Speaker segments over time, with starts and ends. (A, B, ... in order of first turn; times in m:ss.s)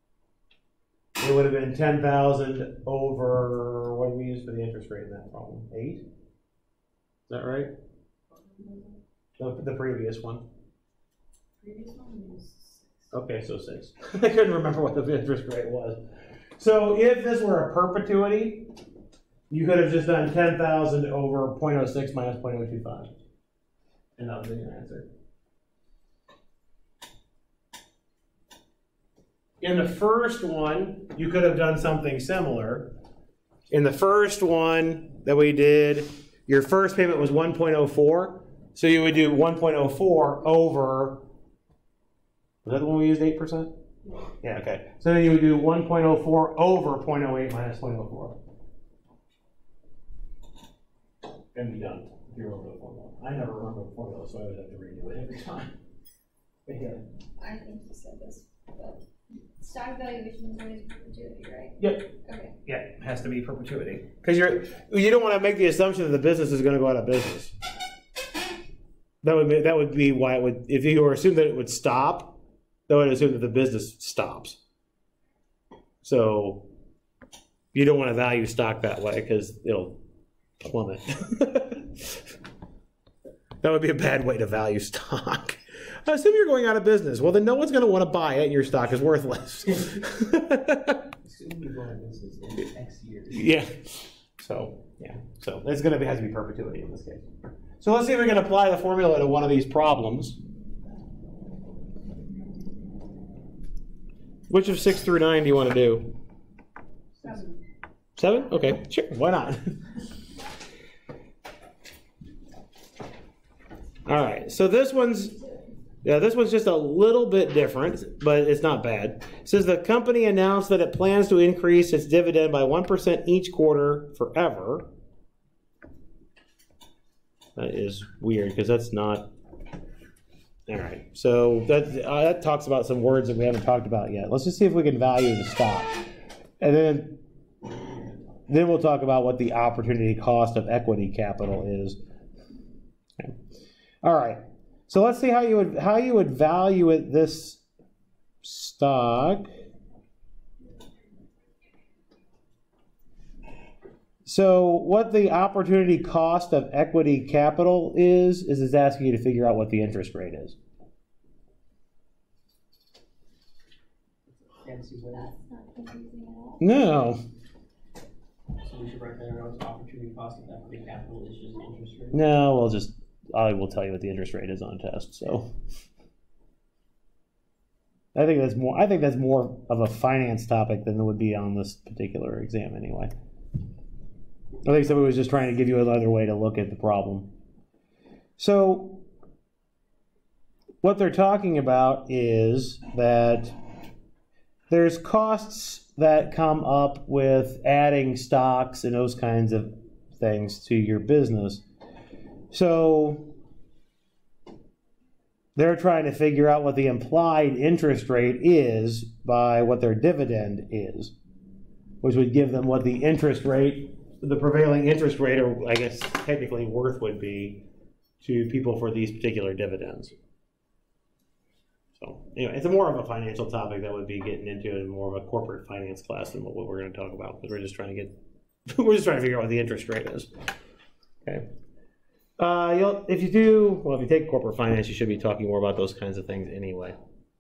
0:01.2-0:06.0 A
0:07.3-0:07.7 A
0:08.3-0:09.0 B
0:09.4-0:10.4 A
0:11.6-0:13.1 B
0:13.1-0:16.0 A
0:16.6-0:18.7 A
0:19.5-0:23.1 A
0:24.2-0:25.1 A
0:29.6-0:32.9 A
0:33.7-0:41.2 A
0:42.6-0:43.7 A
0:44.4-0:48.4 A
0:51.6-0:55.7 A
0:56.7-0:57.0 C
0:57.4-0:59.0 D
0:59.6-1:02.5 D
1:01.8-1:02.1 A
1:02.6-1:07.5 A
1:09.2-1:12.4 A
1:12.9-1:14.6 A
1:16.0-1:16.6 A
1:17.7-1:20.0 A
1:20.6-1:22.2 A
1:23.6-1:31.0 A
1:31.2-1:33.6 C
1:33.3-1:37.3 A
1:37.8-1:40.4 A
1:44.5-1:46.1 A
1:47.2-1:47.6 B
1:48.2-1:49.8 A
1:54.1-1:55.4 A
1:56.0-2:04.9 A
2:07.6-2:09.3 A
2:10.7-2:16.0 A
2:16.6-2:17.2 A
2:18.5-2:22.0 A
2:24.0-2:27.6 A
2:28.4-2:29.5 A
2:34.3-2:40.6 A
2:44.5-2:45.3 C
2:45.1-2:46.8 D
2:46.6-2:47.2 A
2:48.6-2:52.2 C
2:52.1-2:55.5 A
2:58.2-3:03.1 A
3:04.6-3:07.3 A
3:08.4-3:09.0 A
3:10.8-3:13.6 A
3:14.7-3:21.6 A
3:22.5-3:23.3 A
3:25.6-3:31.1 A
3:32.0-3:37.6 A
3:38.2-3:40.1 A
3:42.0-3:48.1 A
3:48.7-3:50.3 A
3:52.4-3:57.0 A